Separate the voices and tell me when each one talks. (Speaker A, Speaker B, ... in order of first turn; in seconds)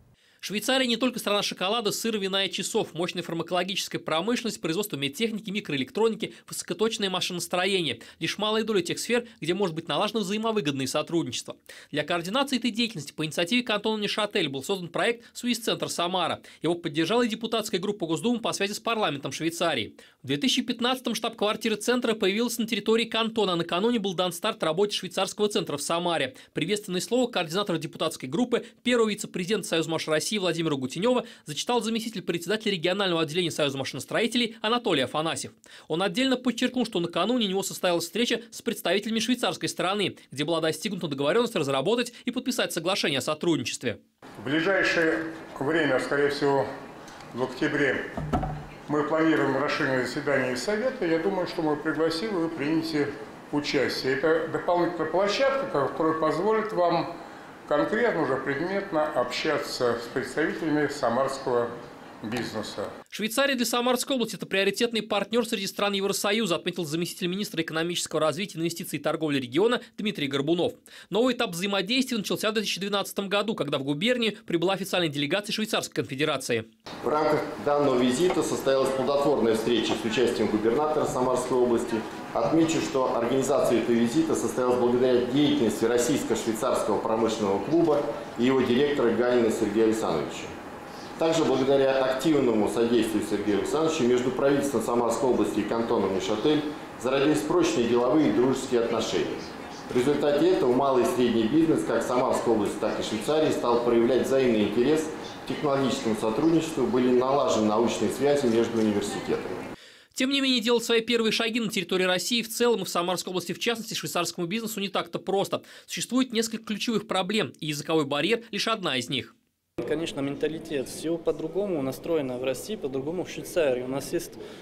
Speaker A: 0.4-44.0, 63.1-76.7, 110.2-119.3
Speaker B: 44.4-46.6, 47.3-48.0, 48.9-57.1, 57.7-61.7, 62.2-62.9
Speaker C: 77.0-90.5, 91.2-109.5
Speaker D: 119.8-124.4